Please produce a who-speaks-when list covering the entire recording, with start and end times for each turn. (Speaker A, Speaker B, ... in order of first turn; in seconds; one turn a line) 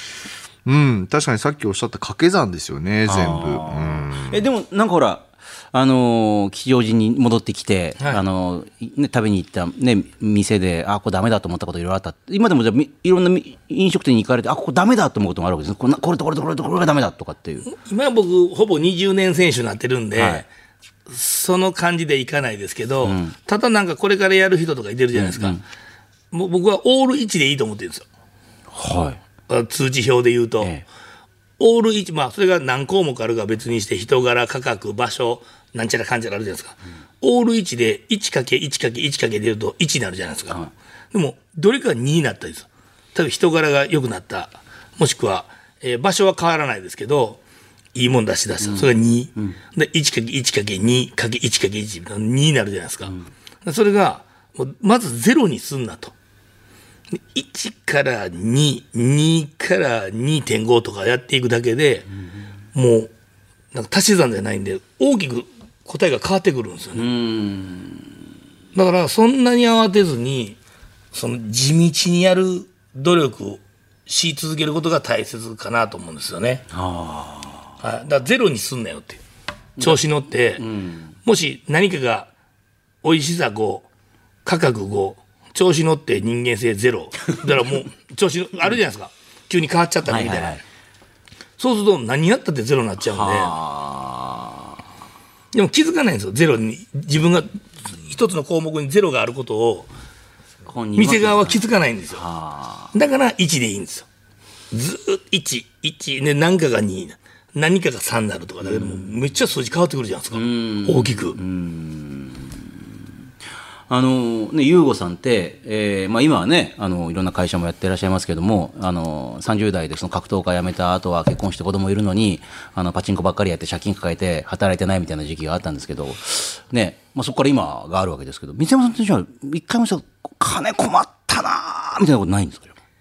Speaker A: 0.6-4.4
Speaker B: 3.0-17.6
Speaker C: 17.7-20.5
Speaker B: 20.1-20.4
Speaker C: 21.1-25.6
Speaker B: 23.0-23.3
Speaker B: 25.1-25.6
Speaker C: 26.3-28.0
Speaker B: 28.7-29.2
Speaker C: 29.5-30.7
Speaker C: 31.6-40.6
Speaker C: 41.1-47.4
Speaker C: 47.9-53.1
Speaker B: 48.6-49.5
Speaker C: 53.6-56.1
Speaker C: 57.3-62.1
Speaker C: 62.7-63.1
Speaker C: 63.7-67.1
Speaker B: 67.0-68.0
Speaker C: 68.7-70.6
Speaker C: 71.1-76.7
Speaker B: 76.7-77.7
Speaker C: 77.8-79.2
Speaker C: 79.8-80.7
Speaker B: 80.6-81.1
Speaker C: 81.2-82.3
Speaker C: 83.0-83.8
Speaker C: 84.4-90.6
Speaker B: 87.3-87.8
Speaker B: 90.1-90.6
Speaker C: 91.6-93.5
Speaker B: 93.0-94.7
Speaker C: 95.5-99.9
Speaker B: 100.7-102.9
Speaker C: 101.0-102.2
Speaker C: 102.9-104.1
Speaker C: 104.7-111.4
Speaker B: 108.6-109.1
Speaker B: 110.3-112.8
Speaker B: 113.9-132.8